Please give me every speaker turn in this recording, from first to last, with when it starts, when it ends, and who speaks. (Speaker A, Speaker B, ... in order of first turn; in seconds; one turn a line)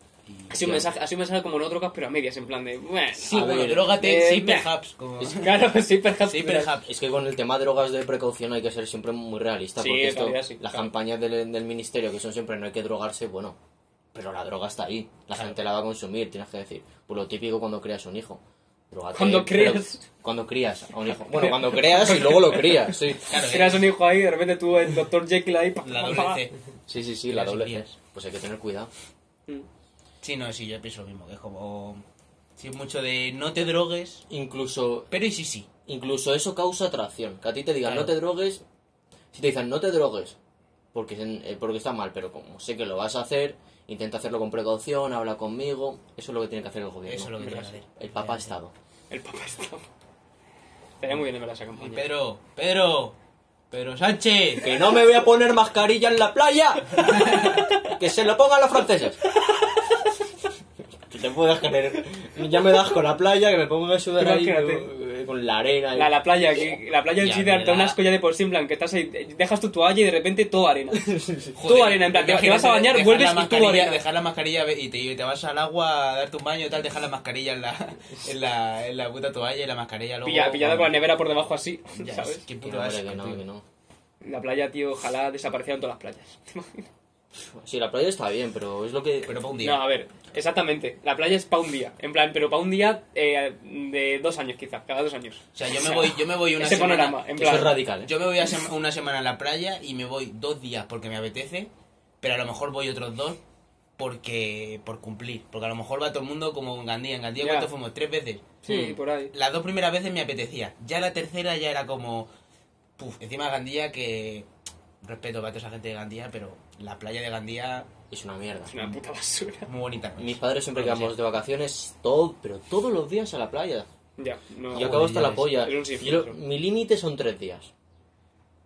Speaker A: 0.3-0.8
Speaker B: 0.5-4.7
Speaker A: 3.2-5.7
Speaker C: 3.3-4.0
Speaker B: 5.2-6.8
Speaker A: 6.2-6.9
Speaker C: 6.9-13.6
Speaker B: 9.8-10.9
Speaker C: 14.1-23.3
Speaker B: 19.1-20.1
Speaker B: 21.3-26.5
Speaker A: 23.3-23.9
Speaker A: 25.8-26.5
Speaker C: 26.9-28.9
Speaker A: 27.3-27.9
Speaker A: 30.2-32.0
Speaker A: 32.6-34.2
Speaker C: 34.3-35.1
Speaker A: 35.1-35.7
Speaker C: 35.9-38.6
Speaker A: 37.8-38.2
Speaker C: 39.3-40.4
Speaker C: 40.9-48.7
Speaker A: 47.1-48.5
Speaker B: 49.1-49.9
Speaker B: 51.0-52.1
Speaker A: 51.8-53.2
Speaker A: 53.7-54.7
Speaker C: 54.6-59.2
Speaker A: 57.1-57.6
Speaker B: 57.6-58.0
Speaker C: 61.1-66.7
Speaker B: 64.2-64.9
Speaker B: 65.9-71.1
Speaker A: 67.2-68.0
Speaker C: 71.1-71.5
Speaker A: 71.5-81.0
Speaker B: 71.6-74.0
Speaker B: 80.2-82.5
Speaker A: 81.9-83.4
Speaker C: 82.6-83.7
Speaker B: 84.2-86.9
Speaker C: 87.4-89.4
Speaker A: 89.3-89.8
Speaker B: 89.6-97.8
Speaker A: 95.5-101.7
Speaker C: 97.4-98.1
Speaker A: 102.2-103.4
Speaker A: 104.0-108.5
Speaker B: 107.4-107.7
Speaker B: 108.6-109.3
Speaker C: 108.7-109.0
Speaker A: 109.3-112.3
Speaker A: 113.0-114.5
Speaker A: 115.0-117.9
Speaker C: 118.1-118.8
Speaker B: 118.7-119.7
Speaker A: 119.7-121.2
Speaker C: 120.2-123.9
Speaker B: 124.2-126.4
Speaker C: 124.7-127.7
Speaker A: 124.7-125.6